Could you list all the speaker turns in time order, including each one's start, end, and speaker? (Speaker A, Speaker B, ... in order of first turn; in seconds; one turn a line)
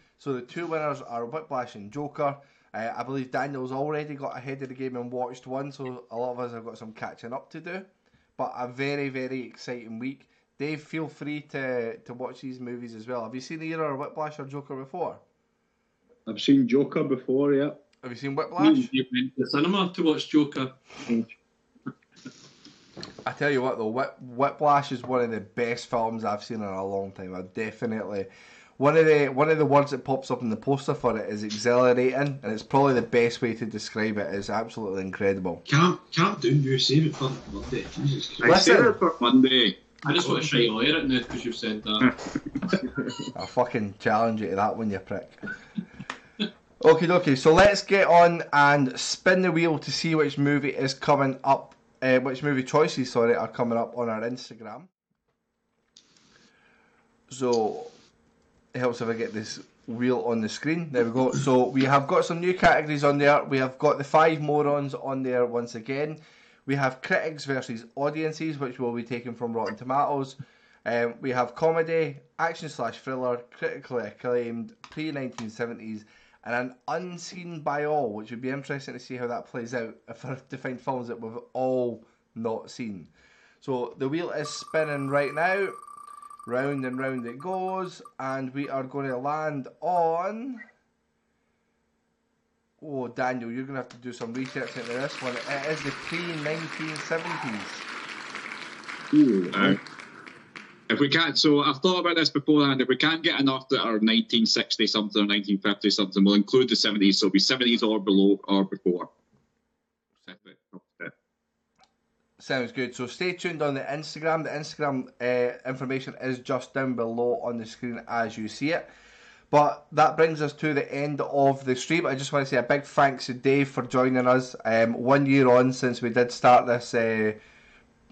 Speaker A: 0.2-15.2
Speaker B: 16.3-17.8
Speaker A: 18.0-18.9
Speaker C: 18.6-21.3
Speaker A: 23.2-35.6
Speaker D: 35.7-38.6
Speaker E: 38.4-39.8
Speaker A: 38.4-39.0
Speaker C: 40.0-42.1
Speaker D: 40.2-40.6
Speaker E: 42.0-42.8
Speaker A: 43.4-45.5
Speaker A: 46.8-54.9
Speaker A: 57.3-57.9
Speaker A: 58.7-83.1
Speaker A: 83.6-85.8
Speaker A: 86.5-90.6
Speaker A: 92.8-97.8
Speaker B: 99.1-99.8
Speaker E: 99.5-99.8
Speaker E: 100.9-109.1
Speaker E: 110.3-111.1
Speaker A: 112.4-118.9
Speaker A: 119.5-127.4